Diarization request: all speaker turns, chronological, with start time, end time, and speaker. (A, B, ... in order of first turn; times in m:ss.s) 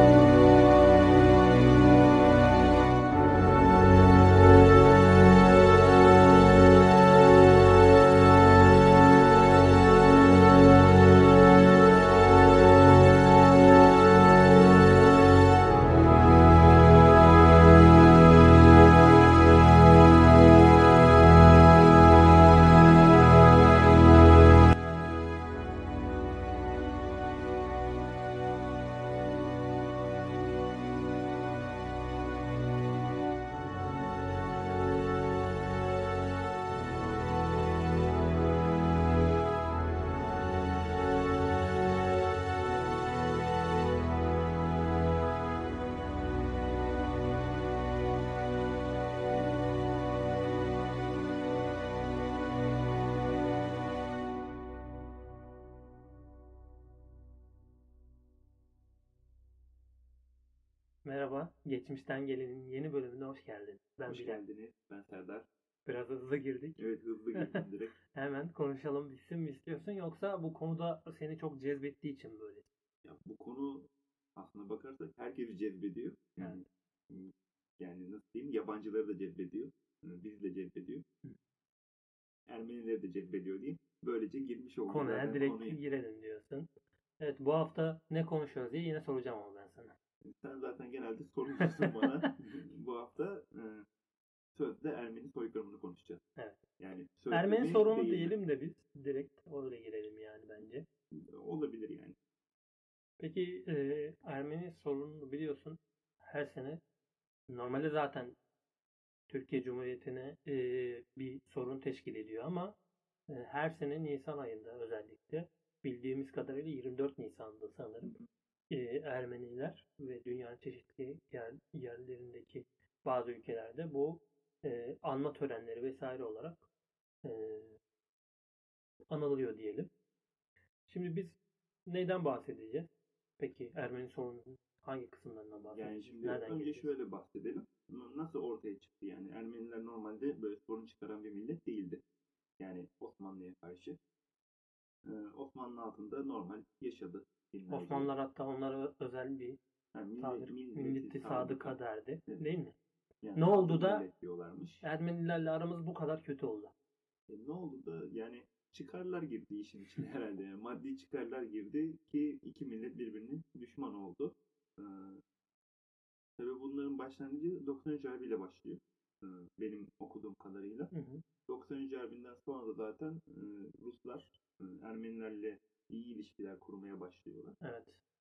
1:01.0-1:04.4 A
1:04.1-1:05.5 B
1:05.8-1:06.8 A
1:06.8-1:08.0 B
1:08.1-1:12.7 A
1:13.0-1:21.0 B
1:16.4-1:16.6 A
1:22.5-1:25.8 B
1:24.9-1:26.7 A
1:27.2-1:29.9 A
1:30.2-1:33.8 B
1:34.5-1:36.2 B
1:36.8-1:38.3 B
1:37.3-1:40.8 A
1:41.1-1:42.2 B
1:43.2-1:46.8 A
1:47.5-1:48.3 A
1:49.3-1:52.7 A
1:53.3-1:58.1 A
1:58.7-2:06.6 A
2:07.2-2:07.8 A
2:09.1-2:09.9 A
2:10.9-2:16.9 A
2:15.7-2:22.0 B
2:22.6-2:24.0 B
2:25.0-2:28.1 B
2:27.7-2:29.6 A
2:29.9-2:32.4 B
2:30.2-2:32.7 A
2:33.2-2:34.8 B
2:33.3-2:34.0 A
2:34.8-2:36.7 A
2:37.3-2:45.2 B
2:46.4-2:50.9 B
2:50.9-2:51.2 A
2:51.5-2:57.6 B
2:57.6-2:58.0 A